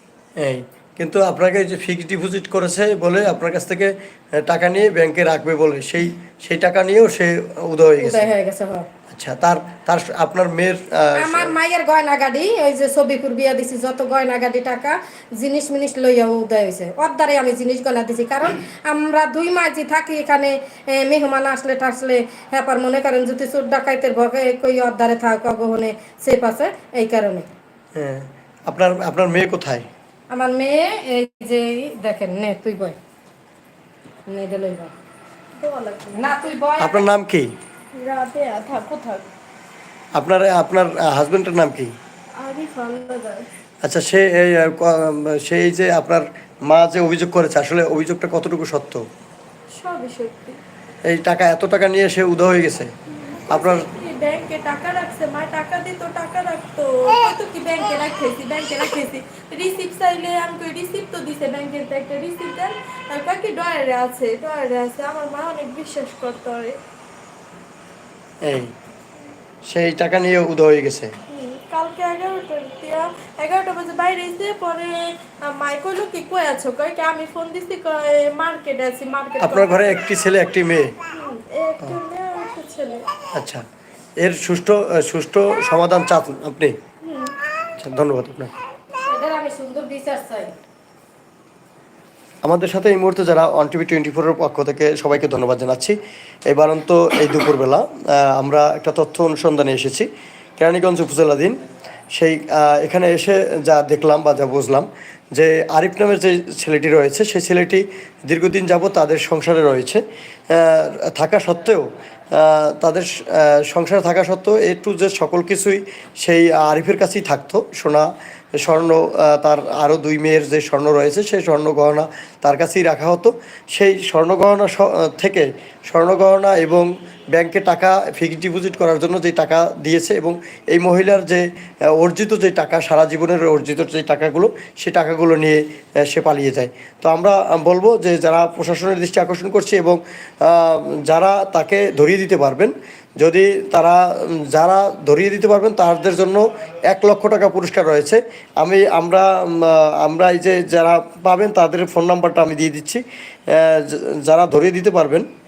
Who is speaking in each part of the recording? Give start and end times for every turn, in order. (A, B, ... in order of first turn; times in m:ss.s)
0:00.4-0:08.3 A
0:08.0-0:08.9 B
0:09.1-0:11.6 A
0:11.2-0:27.5 B
0:28.0-0:29.9 A
0:30.3-0:33.0 B
0:34.3-0:34.9 B
0:35.6-0:36.5 C
0:36.1-0:37.1 B
0:36.8-0:37.5 A
0:38.0-0:39.3 C
0:40.2-0:41.9 A
0:42.4-0:43.5 C
0:43.8-0:49.1 A
0:49.7-0:50.6 C
0:51.0-0:52.9 A
0:53.2-1:06.8 C
0:53.5-0:53.9 A
1:08.4-1:08.7 A
1:09.7-1:11.1 A
1:11.3-1:20.1 C
1:19.4-1:21.0 A
1:21.1-1:23.1 C
1:23.3-1:23.6 A
1:24.2-1:26.8 A
1:27.0-1:27.4 C
1:27.8-1:28.6 A
1:29.0-1:30.6 B
1:32.4-1:41.6 A
1:42.1-2:35.3 A